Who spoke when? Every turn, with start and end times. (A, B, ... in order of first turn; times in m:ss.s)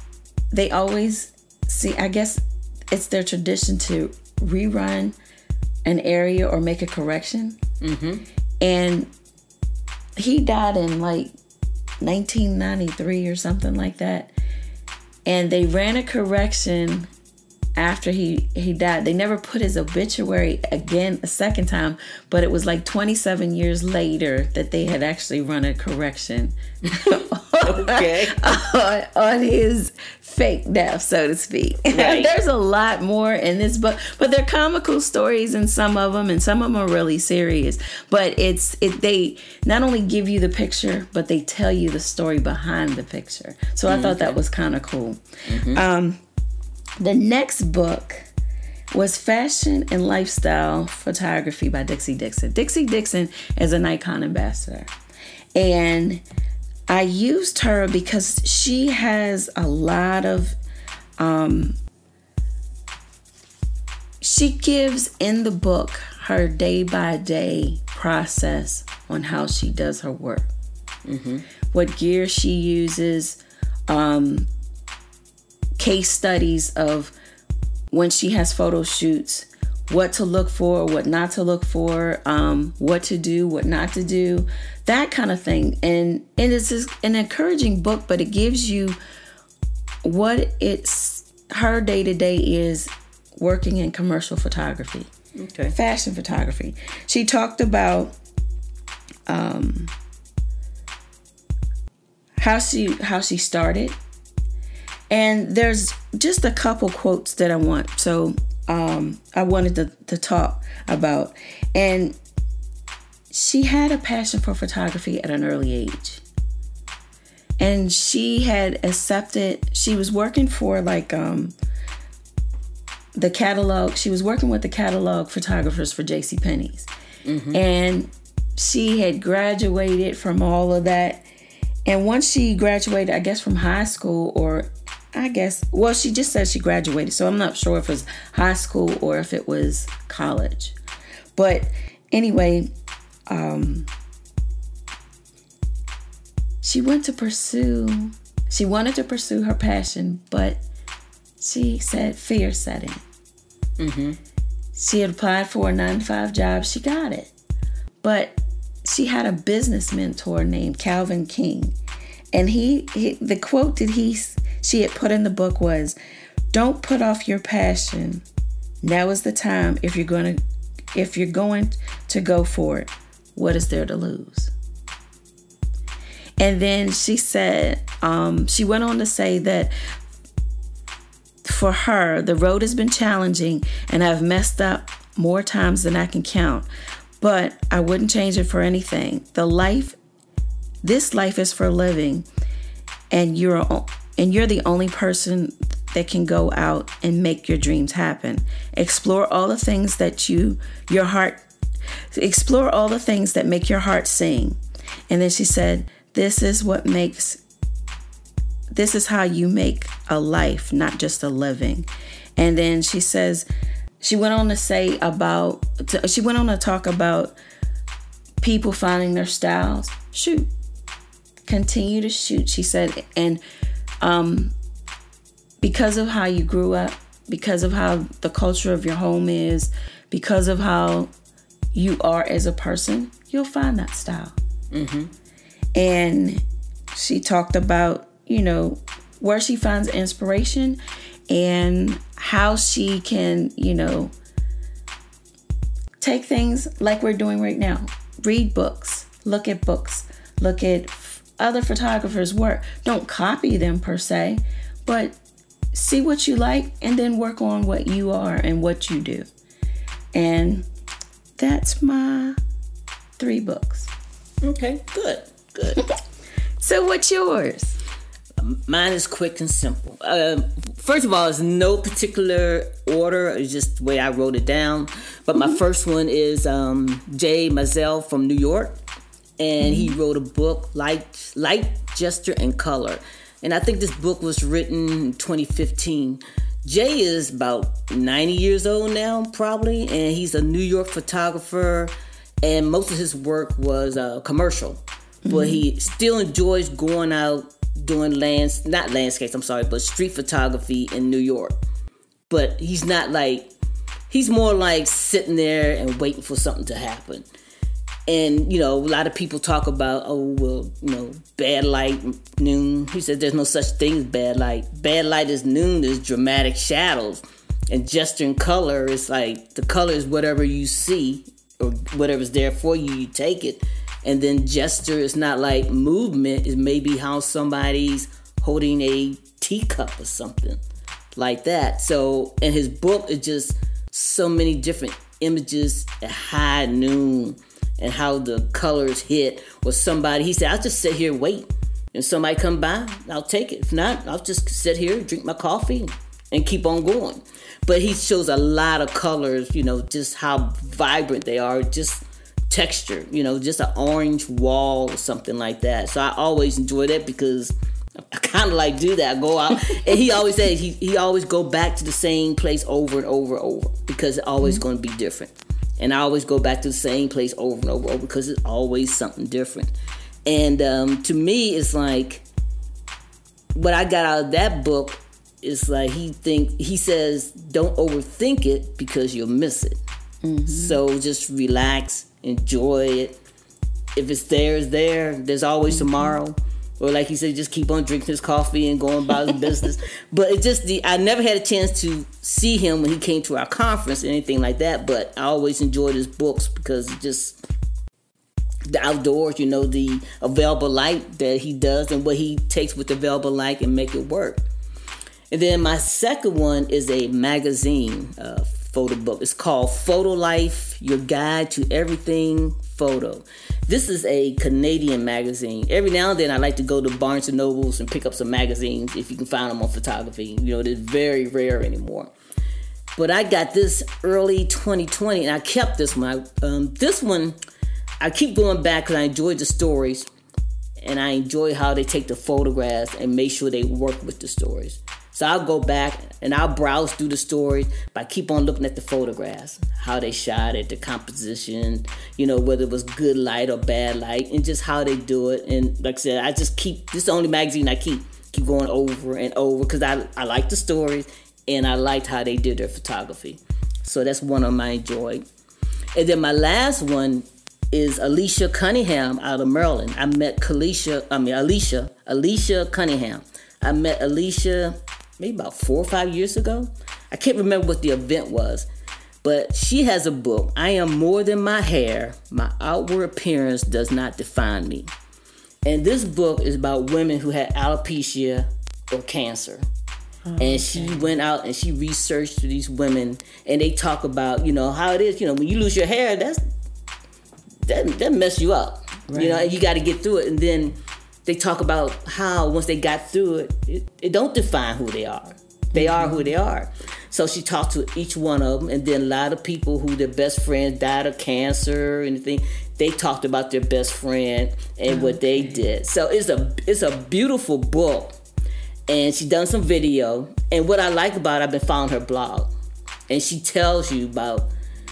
0:00.5-0:05.2 A
0:05.8-0:07.6 A
0:07.8-0:08.2 B
0:08.6-0:09.1 A
0:10.2-0:11.3 A
0:12.0-0:14.3 A
0:15.2-0:17.1 A
0:17.8-0:46.2 A
0:26.8-0:28.4 B
0:31.9-0:32.3 B
0:43.9-0:44.4 B
0:45.5-0:45.8 B
0:47.0-0:48.3 A
0:48.9-0:54.9 A
0:55.6-0:56.2 A
0:56.9-1:00.6 A
1:01.2-1:01.8 A
1:04.2-1:10.5 A
1:11.0-1:11.4 B
1:11.7-1:14.5 A
1:15.8-1:17.1 A
1:17.9-1:29.0 A
1:30.0-1:35.1 A
1:35.4-1:35.8 B
1:35.7-1:38.1 A
1:39.3-1:39.9 A
1:42.4-1:44.0 A
1:45.1-1:52.2 A
1:53.3-1:56.2 A
1:57.6-2:01.5 A
2:03.2-2:06.9 A
2:07.2-2:07.6 B
2:07.5-2:11.2 A
2:11.9-2:20.8 A
2:21.4-2:22.7 A
2:23.3-2:23.9 A
2:26.6-2:30.6 A
2:31.4-2:33.0 A
2:33.8-2:34.2 B
2:34.8-2:37.3 A
2:38.0-2:41.8 A
2:42.3-2:46.0 A
2:46.5-2:48.2 A
2:48.8-2:50.4 A
2:50.9-2:54.5 A
2:56.4-2:59.7 A
3:01.4-3:06.7 A
3:07.2-3:10.0 A
3:10.8-3:12.3 A
3:13.1-3:21.5 A
3:22.1-3:27.4 A
3:28.7-3:33.5 A
3:34.0-3:37.4 A
3:38.4-3:40.5 A
3:41.4-3:43.4 A
3:44.0-3:44.5 A
3:45.6-3:51.1 A
3:51.7-3:54.4 A
3:54.7-3:55.1 B
3:55.8-3:56.4 A
3:56.9-4:04.1 A
4:06.0-4:15.2 A
4:15.7-4:19.3 A
4:20.1-4:20.7 A
4:21.4-4:22.4 A
4:23.2-4:23.9 A
4:24.4-4:25.8 B
4:26.6-4:27.8 A
4:28.4-4:38.8 B
4:39.4-5:01.6 B
4:39.6-4:40.0 A
4:55.2-4:55.6 A
5:02.3-5:03.5 B
5:04.1-5:07.3 B
5:08.1-5:30.6 B
5:31.2-5:57.5 B
5:58.1-6:09.7 B
5:59.7-6:00.0 A
6:10.3-6:12.2 B
6:13.6-6:19.8 B
6:20.2-6:20.8 A
6:20.5-6:23.2 B
6:24.0-6:37.4 B
6:25.7-6:26.2 A
6:38.6-6:44.4 B
6:45.3-7:02.1 B
7:03.0-7:07.4 B
7:08.0-7:10.1 B
7:10.8-7:35.2 B
7:35.9-7:48.7 B
7:49.2-7:54.9 B
7:55.6-7:59.6 B
8:00.3-8:01.1 A
8:00.4-8:06.4 B
8:07.7-8:28.2 B
8:09.1-8:09.5 A
8:15.7-8:16.3 A
8:24.9-8:25.6 A
8:28.9-8:32.5 B
8:33.1-8:34.5 B